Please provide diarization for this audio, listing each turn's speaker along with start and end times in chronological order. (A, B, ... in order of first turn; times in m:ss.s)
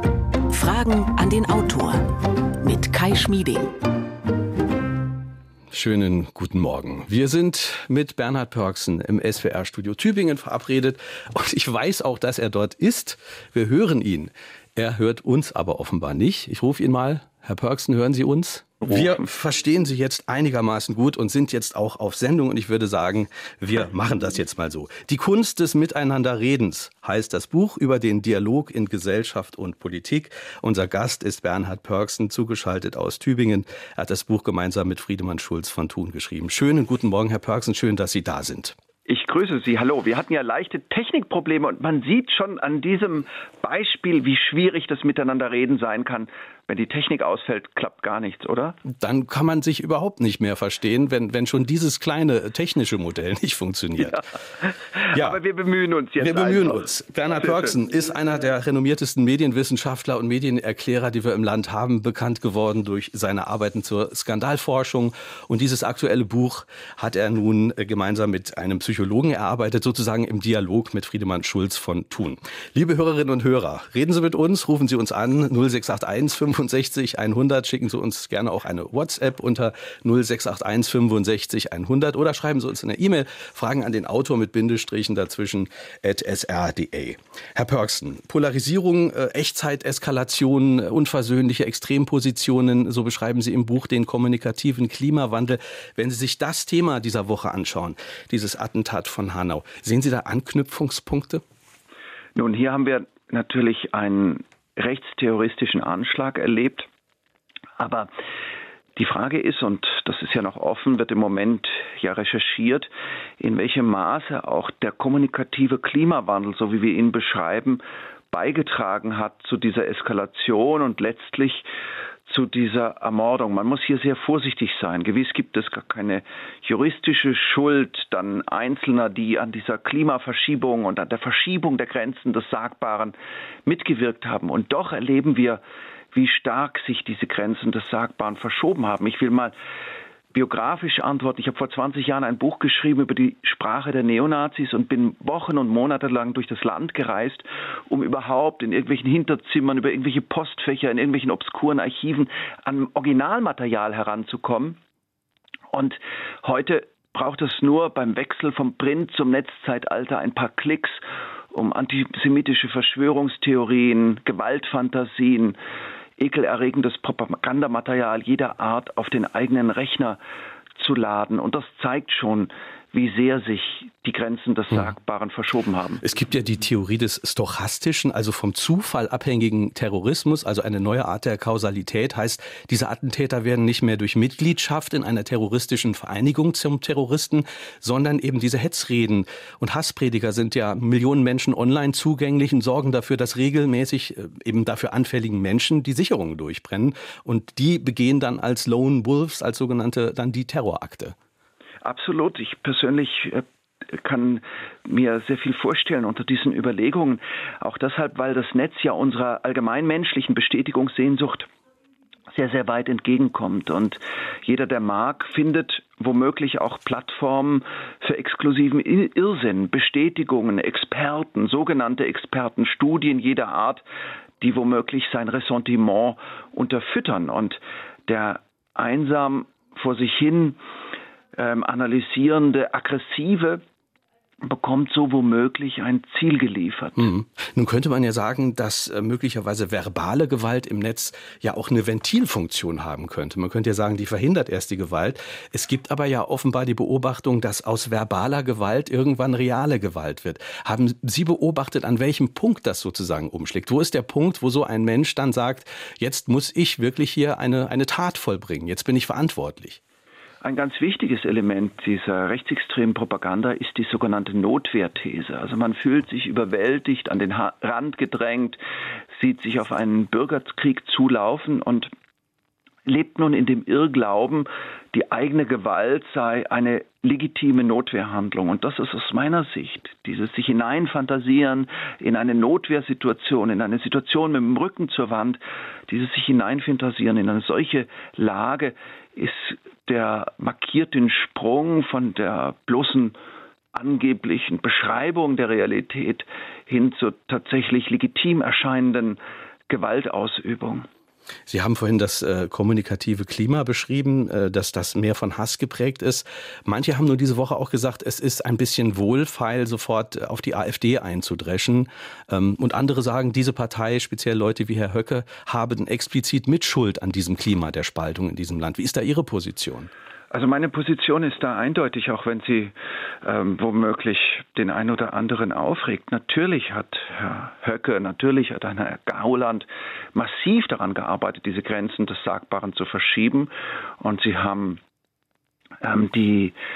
0:00.5-0:02.1 A
0:02.6-0:03.8 A
0:05.7-0:38.8 B
0:39.1-0:48.8 C
0:48.8-0:54.2 B
0:54.6-0:56.9 C
0:55.1-0:55.4 B
0:56.2-1:41.4 B
1:42.4-1:46.9 C
1:47.8-1:48.1 C
1:49.0-2:01.7 C
2:02.3-2:13.2 C
2:13.7-2:15.6 C
2:16.1-2:19.6 C
2:20.3-2:34.8 C
2:35.7-2:45.6 C
2:46.2-2:50.2 C
2:50.8-2:56.0 C
2:56.0-3:21.2 B
3:21.8-3:31.5 C
3:32.3-3:43.8 C
3:44.4-3:50.6 C
3:51.4-3:53.6 C
3:54.4-3:57.1 C
3:57.0-4:19.8 B
4:20.4-4:28.6 C
4:29.2-4:31.9 C
4:32.9-4:53.2 C
4:53.7-5:00.9 C
5:01.5-5:19.9 B
5:20.3-5:33.5 C
5:34.0-5:34.8 C
5:35.8-5:36.6 C